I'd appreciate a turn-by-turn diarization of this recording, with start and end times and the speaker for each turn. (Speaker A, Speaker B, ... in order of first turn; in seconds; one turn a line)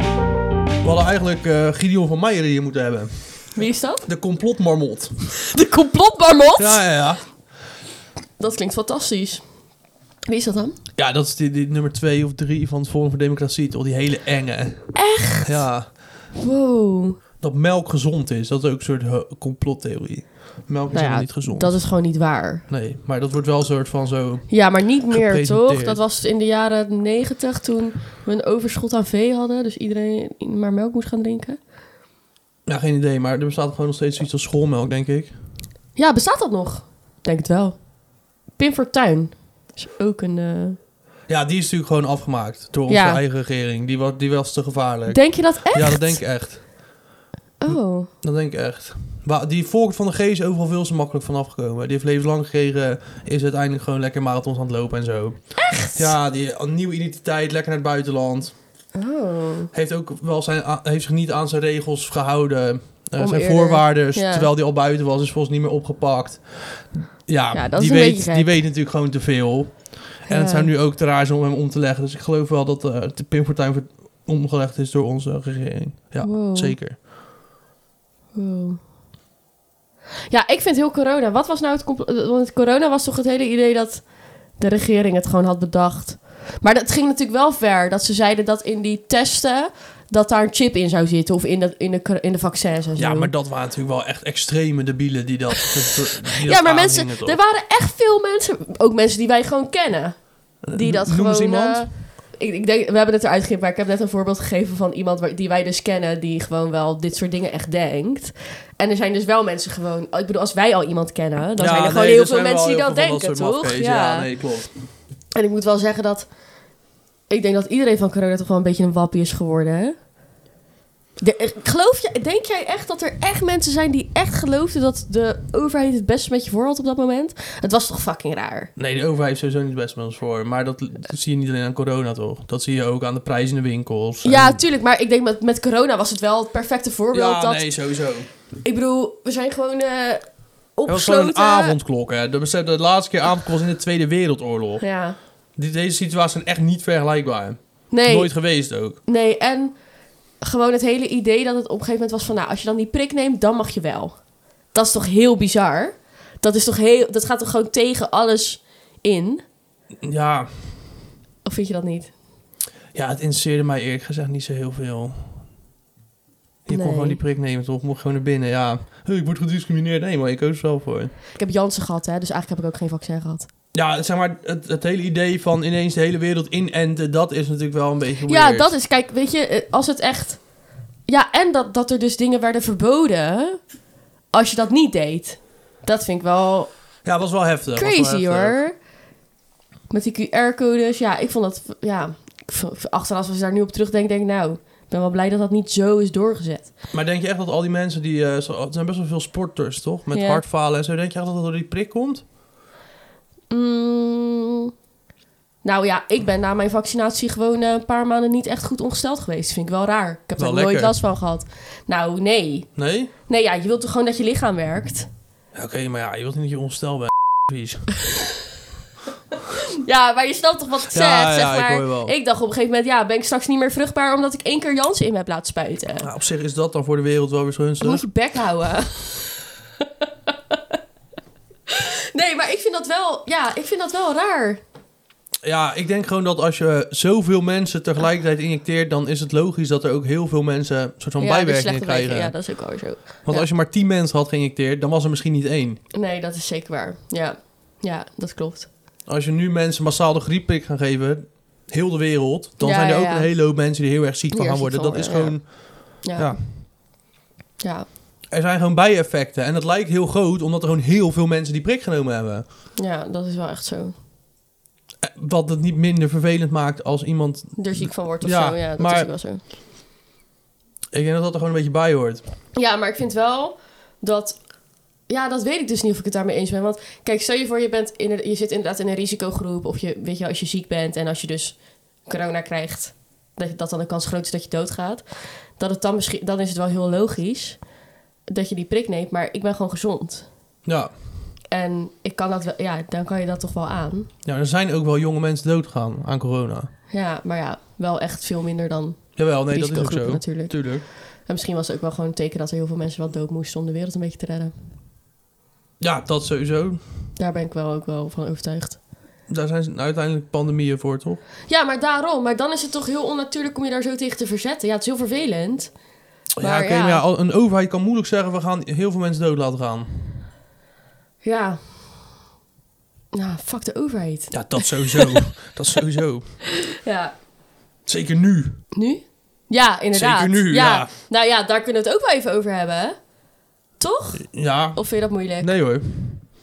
Speaker A: 0.8-5.1
Speaker B: 3.5-4.1
Speaker B: 5.5-6.9
Speaker A: 6.6-7.3
Speaker B: 8.4-9.4
Speaker B: 10.3-10.8
Speaker A: 10.9-15.9
Speaker B: 14.9-17.2
Speaker A: 17.4-21.9
Speaker B: 20.9-22.6
Speaker A: 22.7-26.0
Speaker B: 24.5-31.6
Speaker A: 32.6-35.4
Speaker B: 36.0-37.9
Speaker B: 38.5-40.8
Speaker A: 41.3-46.9
Speaker B: 42.9-43.2
Speaker B: 45.1-46.2
Speaker B: 47.6-48.1
Speaker A: 47.6-58.5
Speaker B: 55.6-56.1
Speaker B: 58.9-59.7
Speaker A: 59.7-77.0
Speaker B: 63.2-64.5
Speaker B: 67.5-68.5
Speaker B: 70.3-70.7
Speaker B: 76.2-76.8
Speaker B: 78.3-78.8
Speaker B: 80.3-93.3
Speaker A: 93.0-97.4
Speaker B: 96.4-114.5
Speaker A: 100.6-101.9
Speaker A: 111.6-114.7
Speaker B: 115.3-116.3
Speaker B: 117.3-120.0
Speaker B: 121.2-128.7
Speaker A: 128.8-134.6
Speaker B: 134.2-137.8
Speaker A: 137.1-138.3
Speaker B: 138.6-141.7
Speaker A: 140.9-144.9
Speaker B: 144.8-145.2
Speaker A: 145.5-149.0
Speaker B: 147.9-149.8
Speaker B: 150.4-159.4
Speaker A: 160.0-160.8
Speaker B: 161.4-162.1
Speaker A: 162.9-165.3
Speaker A: 166.7-171.1
Speaker B: 166.7-167.2
Speaker B: 171.3-173.5
Speaker A: 173.7-178.7
Speaker B: 178.3-180.5
Speaker B: 181.0-183.6
Speaker B: 184.3-186.9
Speaker A: 187.0-188.6
Speaker B: 187.7-188.8
Speaker B: 189.9-196.7
Speaker A: 196.9-202.2
Speaker B: 200.1-200.4
Speaker B: 203.5-204.7
Speaker B: 205.6-215.1
Speaker A: 210.4-210.9
Speaker A: 212.8-213.1
Speaker A: 215.5-217.9
Speaker B: 219.8-226.1
Speaker A: 220.9-222.1
Speaker A: 226.0-228.1
Speaker B: 227.8-229.3
Speaker B: 230.3-230.6
Speaker B: 231.7-234.6
Speaker A: 235.4-242.6
Speaker B: 241.2-243.5
Speaker A: 243.2-245.8
Speaker B: 245.9-248.7
Speaker A: 249.1-256.4
Speaker B: 252.6-253.3
Speaker B: 254.3-256.7
Speaker B: 257.6-257.9
Speaker A: 258.3-262.4
Speaker B: 262.8-263.9
Speaker A: 265.0-269.1
Speaker B: 267.6-269.4
Speaker A: 270.9-272.2
Speaker B: 272.5-274.5
Speaker B: 275.1-287.6
Speaker B: 288.3-290.3
Speaker A: 290.6-290.9
Speaker B: 291.5-294.1
Speaker A: 294.2-296.7
Speaker B: 296.9-304.5
Speaker A: 299.1-300.8
Speaker A: 305.8-306.8
Speaker B: 307.2-308.8
Speaker A: 309.3-311.2
Speaker B: 311.5-315.8
Speaker A: 316.4-319.9
Speaker B: 316.4-317.0
Speaker B: 321.2-322.0
Speaker B: 323.1-325.2
Speaker A: 324.3-326.4
Speaker B: 326.8-327.1
Speaker A: 327.8-328.6
Speaker B: 328.7-333.0
Speaker A: 329.9-330.9
Speaker B: 333.8-335.5
Speaker A: 334.2-336.2